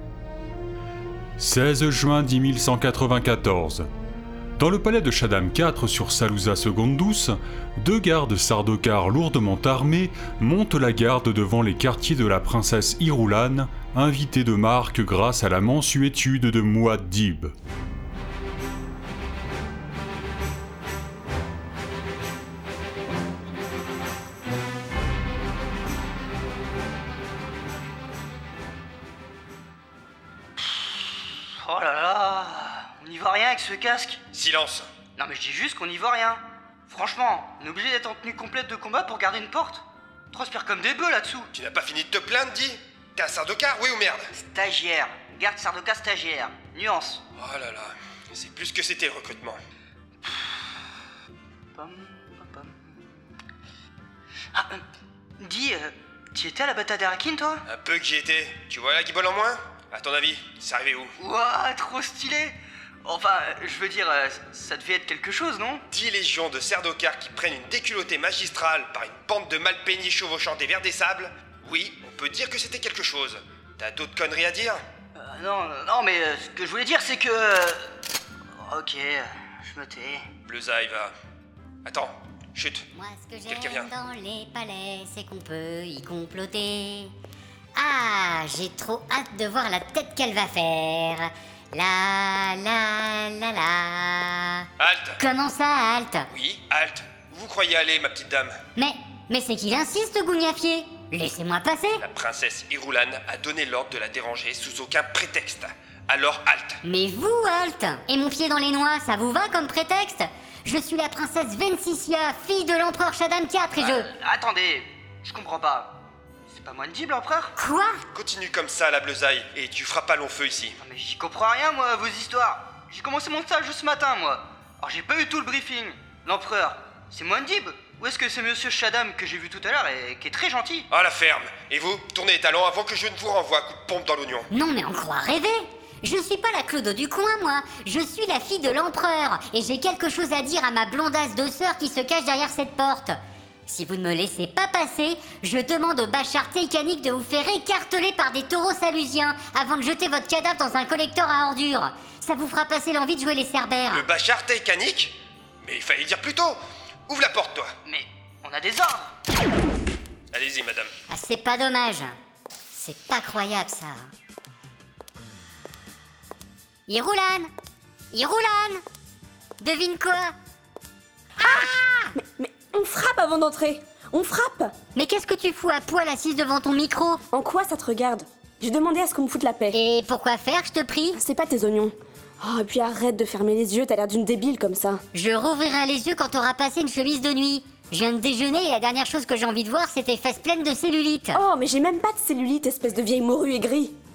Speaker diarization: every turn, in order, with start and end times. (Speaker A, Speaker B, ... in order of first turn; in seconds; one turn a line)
Speaker A: 1.4-3.9
Speaker A: 4.6-17.5
Speaker B: 30.7-34.2
Speaker C: 34.3-34.9
Speaker B: 35.2-41.5
Speaker C: 41.5-44.3
Speaker B: 44.4-47.2
Speaker C: 47.4-49.6
Speaker B: 51.8-52.7
Speaker B: 54.5-54.8
Speaker B: 55.4-57.6
Speaker C: 57.7-61.1
Speaker B: 61.2-65.8
Speaker C: 65.9-74.8
Speaker B: 75.2-77.9
Speaker B: 78.7-80.3
Speaker C: 80.5-81.1
Speaker C: 81.8-82.8
Speaker D: 82.9-87.1
Speaker C: 83.5-83.9
Speaker D: 87.8-94.7
Speaker C: 94.8-95.2
Speaker D: 95.2-96.3
Speaker C: 96.3-98.6
Speaker D: 98.8-102.0
Speaker C: 102.0-106.8
Speaker D: 106.8-114.1
Speaker B: 113.8-116.0
Speaker B: 116.5-117.5
Speaker D: 117.6-118.0
Speaker C: 118.1-120.7
Speaker B: 120.8-130.9
Speaker C: 130.9-134.5
Speaker D: 134.5-143.2
Speaker D: 143.7-154.1
Speaker C: 153.9-157.7
Speaker B: 157.8-159.2
Speaker C: 160.3-160.9
Speaker D: 161.1-162.1
Speaker D: 162.7-164.0
Speaker D: 166.9-167.5
Speaker D: 168.1-168.8
Speaker D: 169.6-170.3
Speaker D: 171.4-172.1
Speaker E: 172.1-174.7
Speaker D: 174.9-177.2
Speaker E: 177.3-179.8
Speaker D: 179.7-181.2
Speaker E: 181.1-185.0
Speaker D: 185.1-191.4
Speaker E: 191.3-193.9